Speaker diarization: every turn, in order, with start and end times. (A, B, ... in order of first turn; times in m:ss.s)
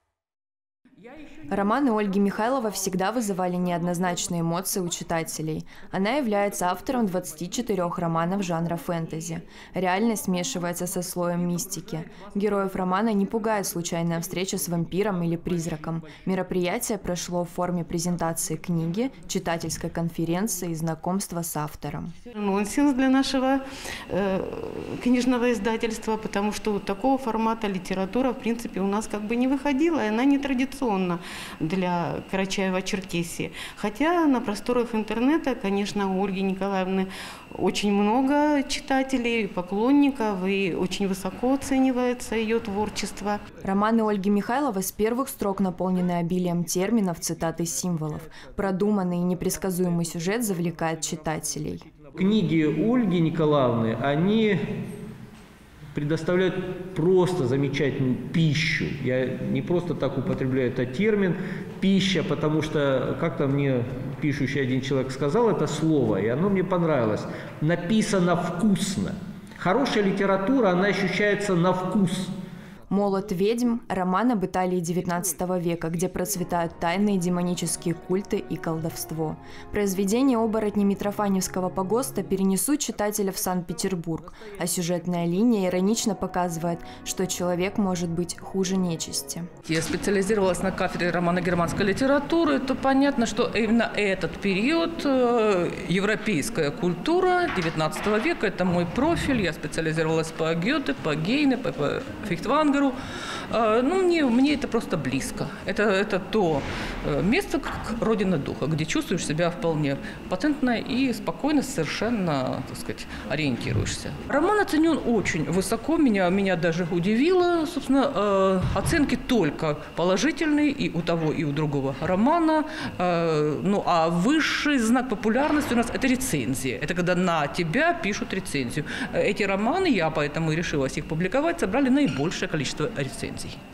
0:01.5-0:22.1 A
0:22.3-0:43.4 B
0:43.6-0:51.8 A
0:50.2-0:51.1 C
0:52.0-0:54.6 C
0:55.9-1:12.3 C
1:12.9-1:29.5 A
1:29.6-1:43.0 D
1:43.5-2:13.6 D